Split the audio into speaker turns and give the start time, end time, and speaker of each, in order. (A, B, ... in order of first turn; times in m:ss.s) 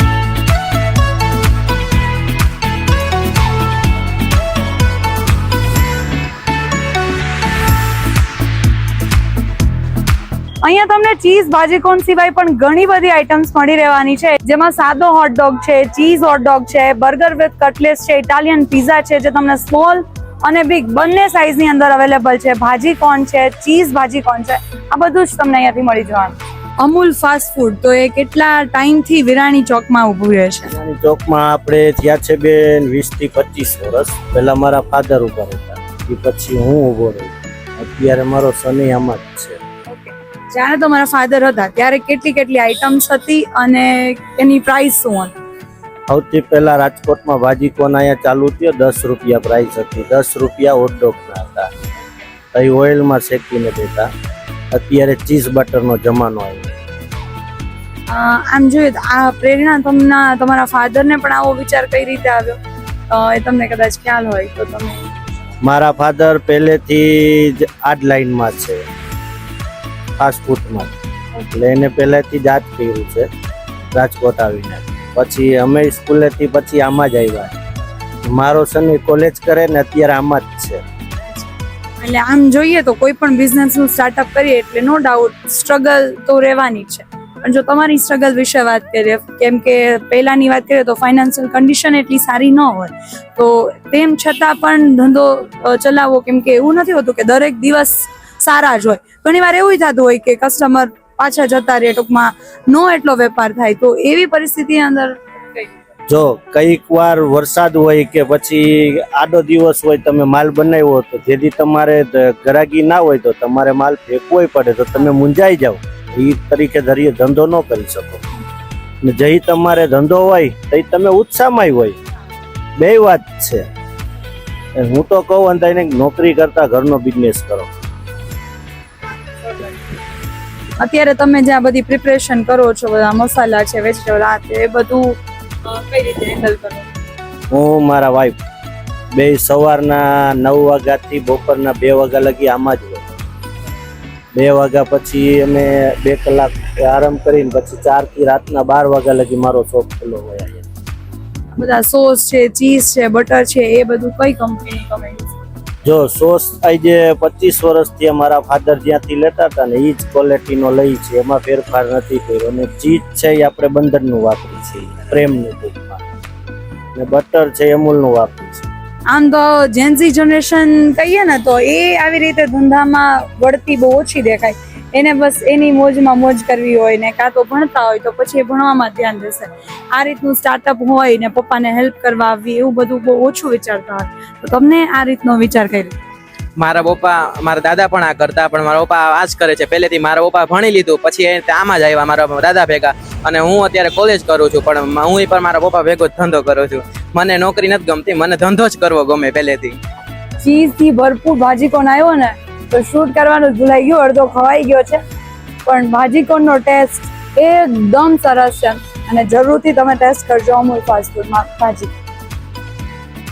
0:10.6-0:30.7 A
0:30.7-0:39.6 B
0:39.9-0:45.4 A
0:46.1-0:51.7 B
0:52.5-0:54.1 B
0:54.7-0:56.7 B
0:58.1-1:05.1 A
1:05.6-1:08.8 B
1:10.2-1:13.3 B
1:13.9-1:17.6 B
1:18.2-1:20.8 B
1:22.0-1:45.7 A
1:46.1-1:58.2 B
1:59.0-2:02.0 B
2:02.8-2:03.7 B
2:04.8-2:07.8 B
2:09.4-2:09.8 A
2:10.8-2:16.9 A
2:17.5-2:18.4 B
2:19.1-2:23.1 B
2:24.3-2:30.7 B
2:31.5-2:35.4 A
2:35.8-2:46.0 B
2:46.9-2:48.7 B
2:49.1-3:06.0 A
3:06.6-3:19.8 C
3:20.4-3:25.0 A
3:25.6-3:31.9 A